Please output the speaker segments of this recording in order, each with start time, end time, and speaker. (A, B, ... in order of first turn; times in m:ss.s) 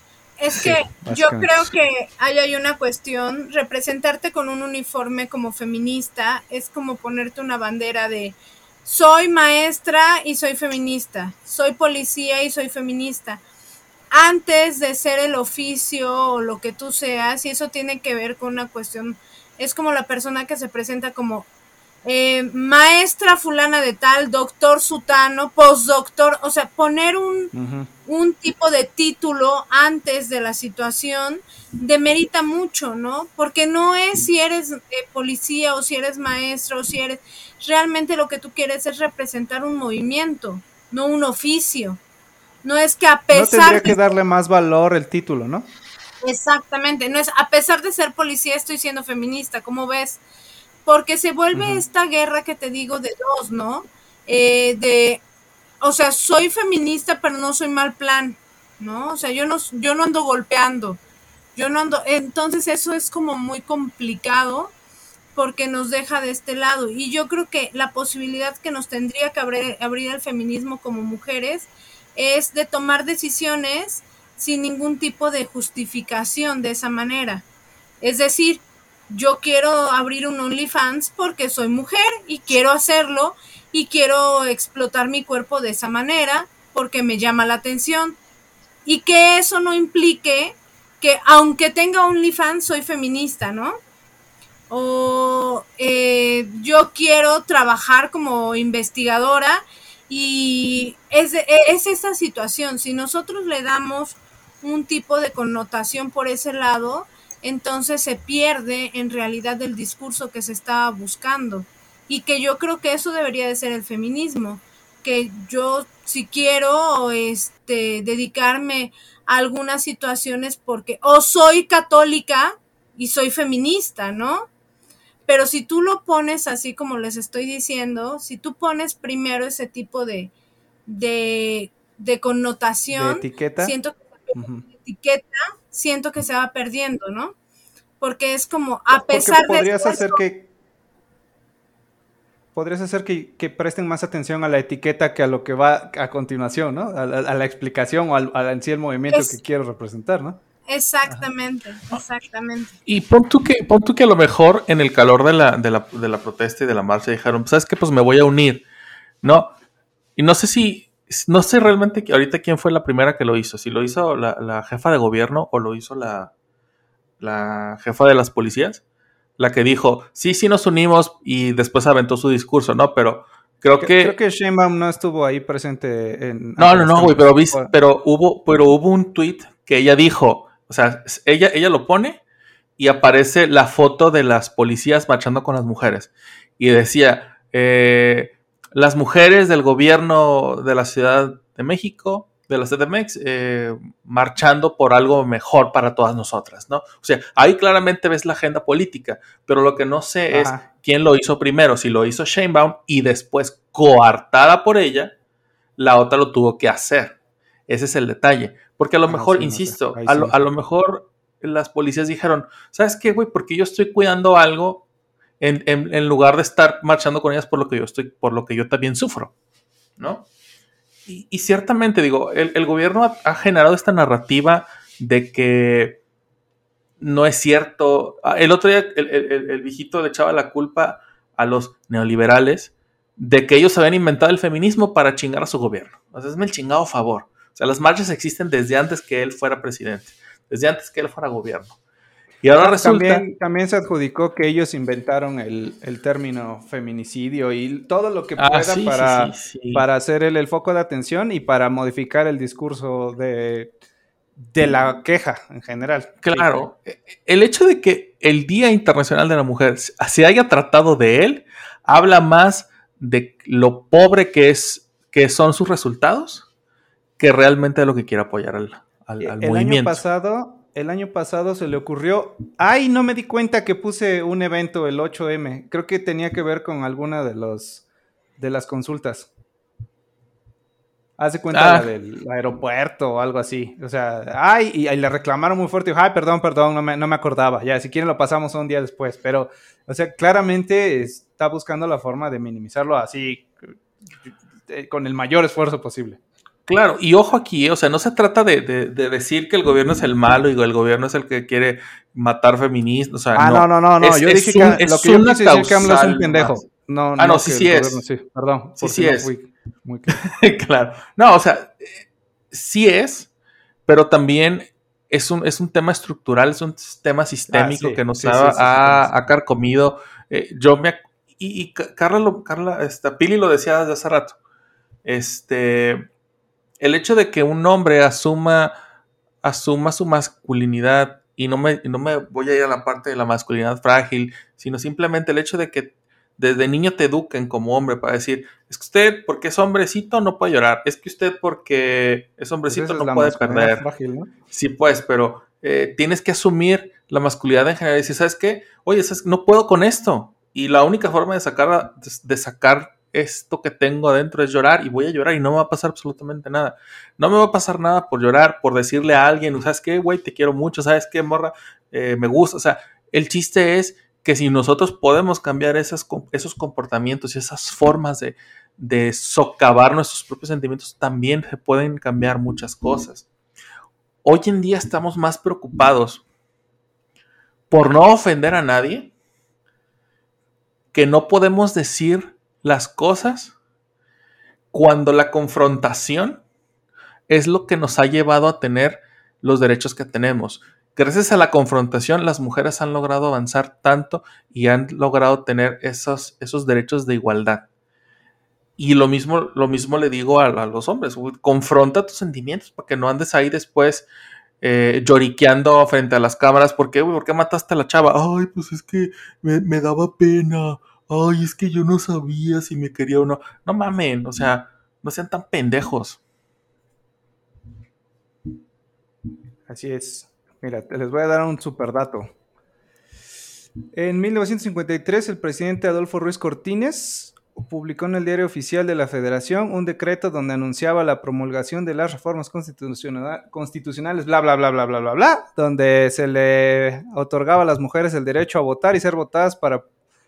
0:00.4-0:13.4 A
0:00.6-0:01.7 B
0:14.1-0:21.5 A
0:22.0-0:27.5 A
0:27.5-0:27.9 B
0:28.1-0:42.0 A
0:42.6-0:44.0 A
0:43.3-0:45.7 B
0:46.2-0:50.2 A
0:50.9-0:55.2 A
0:51.5-0:51.8 B
0:55.8-1:01.0 A
1:01.6-1:04.7 A
1:05.4-1:17.4 A
1:18.0-1:28.2 A
1:28.8-1:33.8 A
1:34.7-2:04.5 A
2:05.3-2:10.3 A
2:10.9-2:17.3 A
2:12.9-2:13.8 B
2:14.3-2:14.7 B
2:18.0-2:20.2 A
2:19.0-2:20.5 B
2:22.6-2:30.4 B
2:29.1-2:29.4 A
2:30.7-2:32.7 A
2:32.9-2:38.6 C
2:39.2-2:39.5 C
2:40.2-2:46.3 C
2:47.2-2:48.8 C
2:49.4-2:54.2 C
2:53.8-2:57.7 B
2:56.6-3:02.2 C
3:02.8-3:25.1 C
3:20.3-3:20.6 B
3:25.8-3:27.2 C
3:27.7-3:34.8 C
3:29.1-3:30.4 B
3:35.4-3:39.3 C
3:40.0-3:40.3 C
3:41.1-3:46.0 C
3:47.0-4:01.8 C
4:02.4-4:03.2 C
4:02.6-4:13.7 B
4:08.4-4:09.8 C
4:14.4-4:16.6 B
4:16.2-4:26.4 C
4:27.2-4:30.0 C
4:29.2-4:37.8 B
4:38.4-4:39.3 B
4:41.2-4:53.6 B
4:41.5-4:41.9 C
4:54.2-4:56.2 B
4:56.7-5:08.0 C
5:03.3-5:10.2 B
5:08.8-5:09.3 C
5:10.1-5:13.3 C
5:13.9-5:24.4 C
5:17.5-5:19.1 B
5:25.0-5:26.1 C
5:26.8-5:28.7 C
5:29.4-5:43.8 C
5:42.7-5:44.3 B
5:44.5-6:13.2 C
6:14.2-6:16.2 C
6:17.7-6:19.1 C
6:20.9-6:23.6 C
6:24.7-6:26.4 C
6:27.3-6:37.7 C
6:38.8-6:44.1 C
6:44.6-6:56.2 C
6:59.7-7:02.3 B
7:03.9-7:19.9 B